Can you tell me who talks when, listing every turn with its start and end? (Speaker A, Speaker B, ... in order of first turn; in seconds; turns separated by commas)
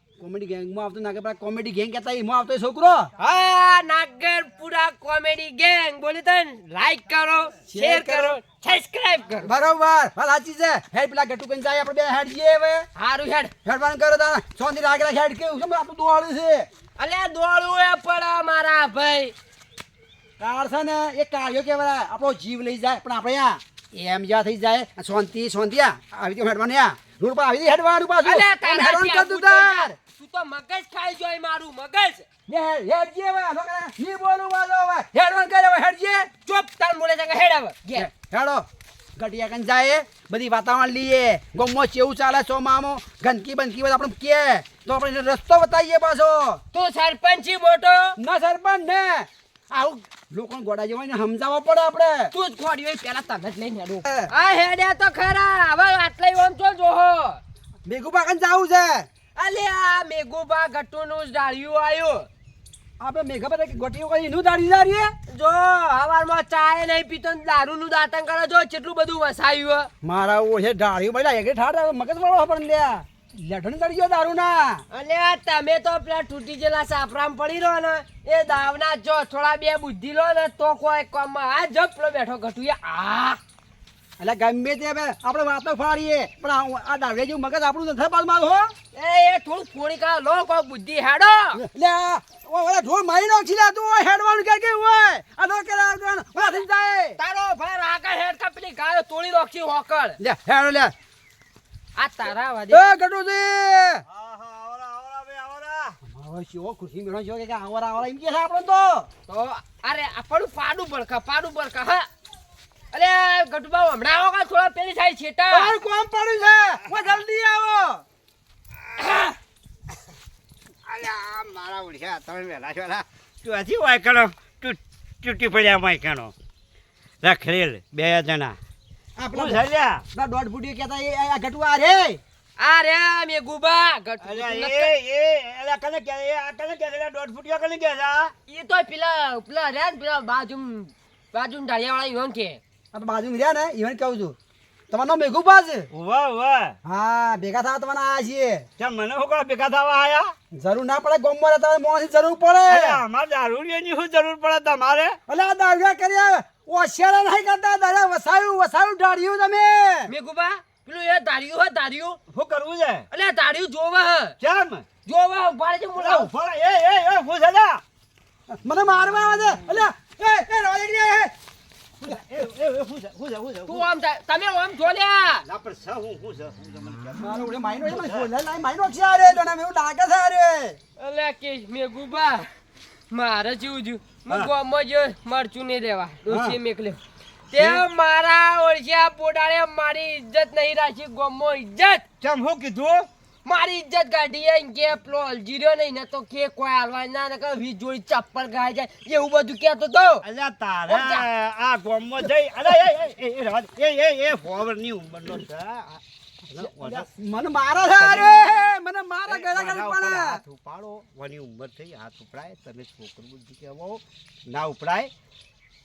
Speaker A: 0.2-3.1, Speaker B: 3.2-9.5, Speaker A: 7.7-8.4, Speaker A: 9.4-12.9, Speaker B: 12.9-13.5, Speaker A: 13.6-16.7, Speaker B: 17.0-19.3, Speaker A: 20.4-29.9, Speaker B: 28.2-32.3, Speaker A: 32.5-36.3, Speaker B: 36.4-38.1, Speaker A: 37.9-38.6, Speaker A: 39.2-46.6, Speaker B: 46.7-48.2, Speaker A: 48.2-52.3, Speaker B: 52.3-57.4, Speaker A: 54.0-54.3, Speaker A: 57.9-59.1, Speaker B: 59.4-62.3, Speaker A: 63.0-65.1, Speaker B: 65.3-69.9, Speaker A: 70.0-74.8, Speaker B: 74.9-83.4, Speaker A: 84.2-88.7, Speaker B: 88.9-91.6, Speaker A: 91.5-97.2, Speaker B: 97.2-100.2, Speaker A: 100.2-100.9, Speaker B: 102.0-102.8, Speaker A: 102.7-104.0, Speaker C: 104.1-106.0, Speaker A: 106.0-109.1, Speaker B: 109.3-112.1, Speaker B: 112.9-115.7, Speaker A: 115.5-118.0, Speaker C: 120.8-126.3, Speaker C: 127.2-128.6, Speaker A: 129.2-129.6, Speaker C: 129.3-130.0, Speaker A: 130.1-132.2, Speaker B: 132.6-134.9, Speaker C: 134.2-138.3, Speaker B: 138.5-142.6, Speaker A: 142.9-144.3, Speaker A: 144.9-145.9, Speaker C: 145.9-146.8, Speaker A: 146.8-148.7, Speaker C: 148.8-150.3, Speaker A: 150.5-153.0, Speaker C: 152.7-155.2, Speaker A: 155.3-160.1, Speaker B: 160.1-162.2, Speaker C: 162.3-163.1, Speaker B: 163.1-164.3, Speaker C: 164.4-164.8, Speaker B: 165.1-166.3, Speaker C: 166.0-167.8, Speaker A: 168.5-171.3, Speaker C: 172.0-173.9, Speaker B: 173.7-175.4, Speaker C: 175.4-178.3, Speaker A: 177.2-180.8, Speaker B: 181.0-182.5, Speaker B: 183.1-187.0, Speaker C: 186.3-186.6, Speaker B: 187.5-192.0, Speaker C: 187.5-187.8, Speaker C: 192.2-193.1, Speaker B: 193.4-200.2, Speaker C: 200.2-206.0, Speaker B: 200.9-201.2, Speaker A: 206.5-210.4, Speaker C: 206.6-207.1, Speaker C: 208.0-208.3, Speaker C: 209.3-215.1